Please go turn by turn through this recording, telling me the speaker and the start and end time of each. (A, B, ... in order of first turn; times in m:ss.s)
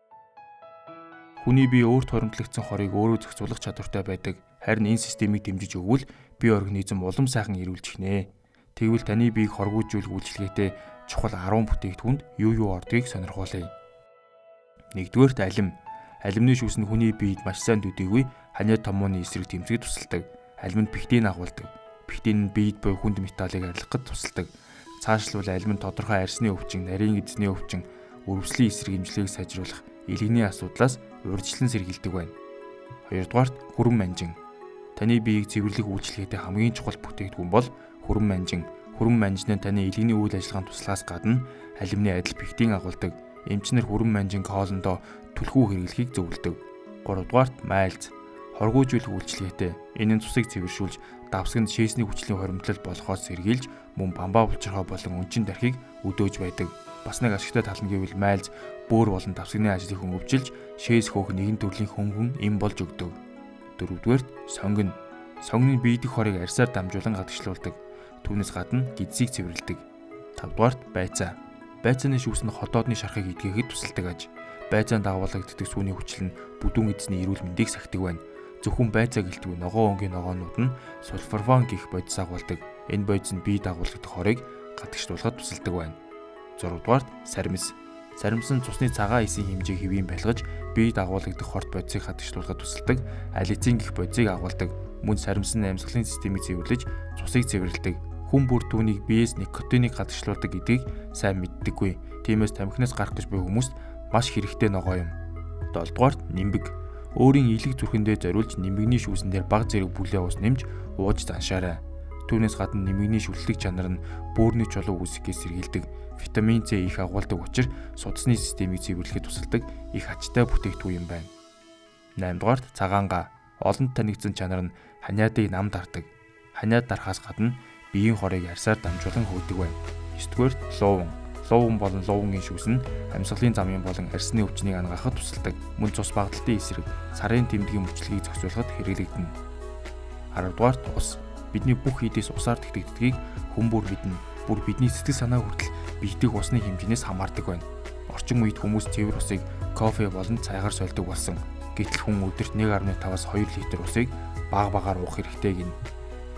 0:01.4-0:13.7 A
0:14.9-0:32.3 A
0:33.0-0:34.4 A
0:34.9-1:03.2 A
1:03.7-1:09.8 A
1:10.4-1:26.0 A
1:26.6-1:45.2 A
1:45.7-2:01.3 A
2:02.2-2:19.3 A
2:20.3-2:35.8 A